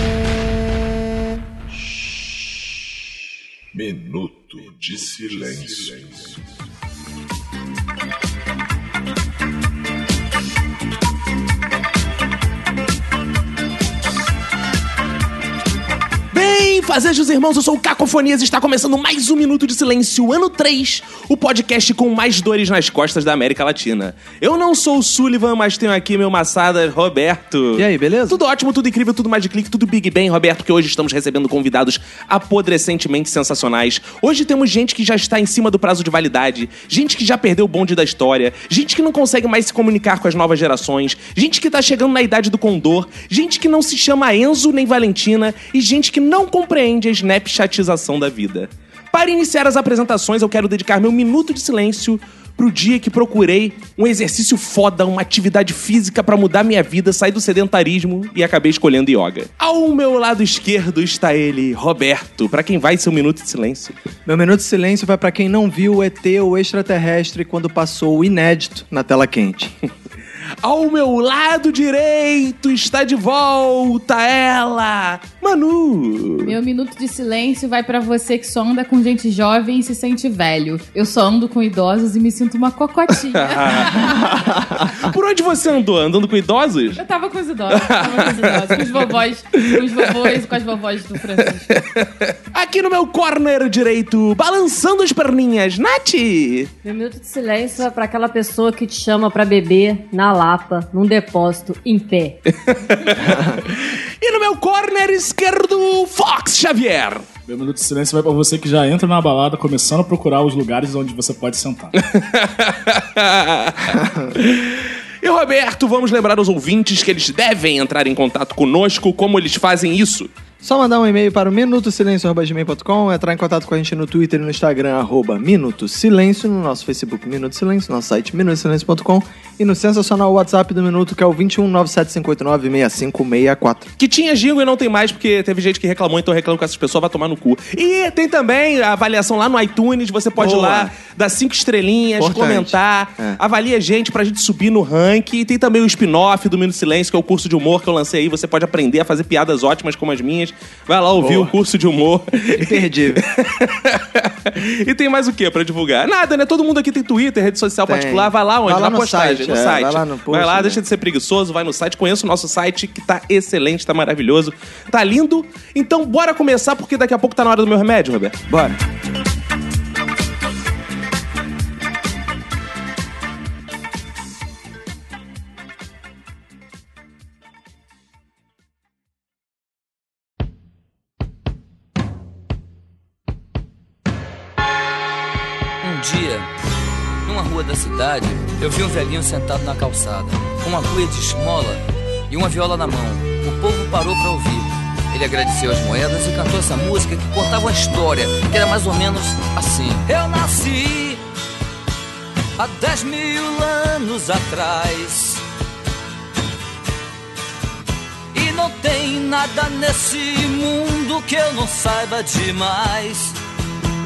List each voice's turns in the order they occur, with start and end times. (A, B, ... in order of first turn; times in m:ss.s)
0:03.7-0:06.4 A
0:16.3-1:03.9 B
0:27.7-0:28.4 C
1:04.2-1:09.7 C
1:10.6-1:16.6 B
1:16.4-1:24.4 D
1:23.3-1:24.2 B
1:24.2-1:24.9 C
1:24.8-1:27.0 B
1:27.0-1:31.8 D
1:27.7-1:29.1 B
1:29.7-1:30.4 B
1:31.4-1:36.7 B
1:36.8-1:42.4 E
1:42.6-1:47.2 B
1:47.5-1:51.9 F
1:52.0-2:00.3 B
1:53.9-1:54.3 C
2:00.6-2:13.9 C
2:14.0-2:48.4 B
2:20.4-2:20.9 C
2:22.2-2:23.4 C
2:31.2-2:31.5 C
2:32.5-2:33.2 C
2:37.8-2:40.8 C
2:48.5-2:48.8 C
3:05.8-3:06.5 G
3:07.2-3:21.2 G
3:22.6-3:25.4 G
3:28.3-3:33.4 G